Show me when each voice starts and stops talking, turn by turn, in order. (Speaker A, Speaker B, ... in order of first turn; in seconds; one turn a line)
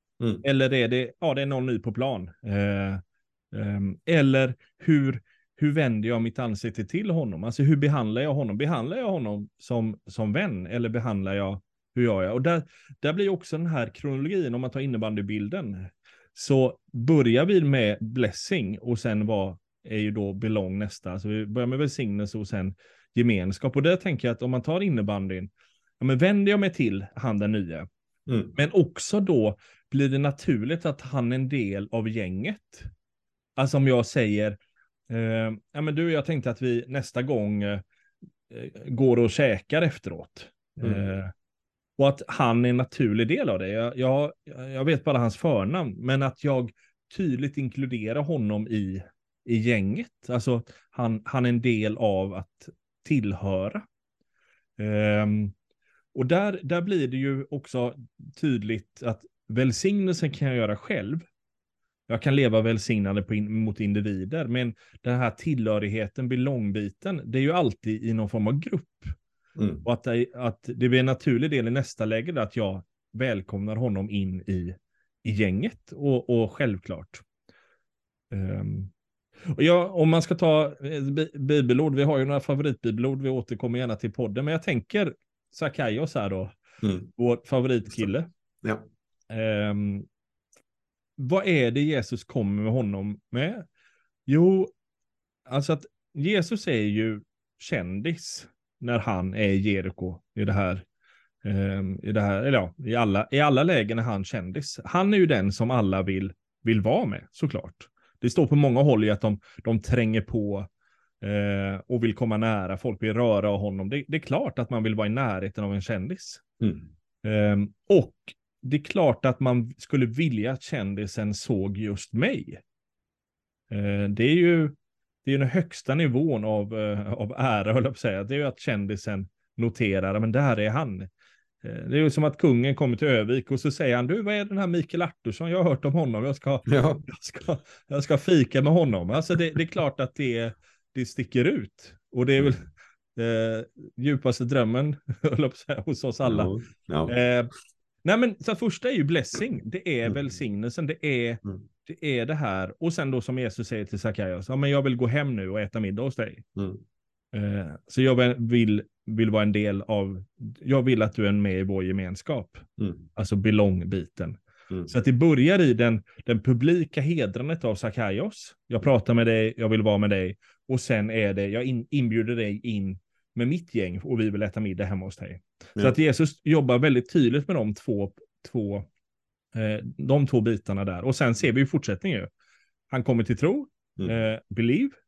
Speaker A: 0.4-3.0
Speaker A: 3.5-27.9
Speaker B: 28.3-28.5
Speaker A: 28.6-32.9
Speaker A: 33.6-34.6
Speaker A: 35.1-37.8
Speaker A: 38.5-41.3
Speaker A: 42.0-53.8
Speaker A: 54.8-55.5
Speaker A: 56.1-61.2
Speaker A: 62.1-69.2
Speaker B: 69.6-69.8
Speaker A: 69.8-77.2
Speaker A: 78.3-78.9
Speaker A: 79.5-86.6
Speaker B: 86.8-87.1
Speaker A: 87.2-88.3
Speaker A: 89.3-90.1
Speaker A: 91.2-93.7
Speaker A: 94.3-94.7
Speaker A: 95.5-100.8
Speaker A: 101.4-110.7
Speaker A: 111.2-116.5
Speaker B: 116.6-116.9
Speaker A: 117.2-122.6
Speaker A: 123.7-131.1
Speaker A: 131.6-142.7
Speaker B: 136.7-137.0
Speaker A: 143.2-146.5
Speaker B: 146.2-147.2
Speaker A: 147.1-147.5
Speaker A: 148.0-156.5
Speaker B: 156.6-156.8
Speaker A: 157.3-178.9
Speaker B: 162.8-163.1
Speaker A: 179.5-182.3
Speaker A: 182.9-185.0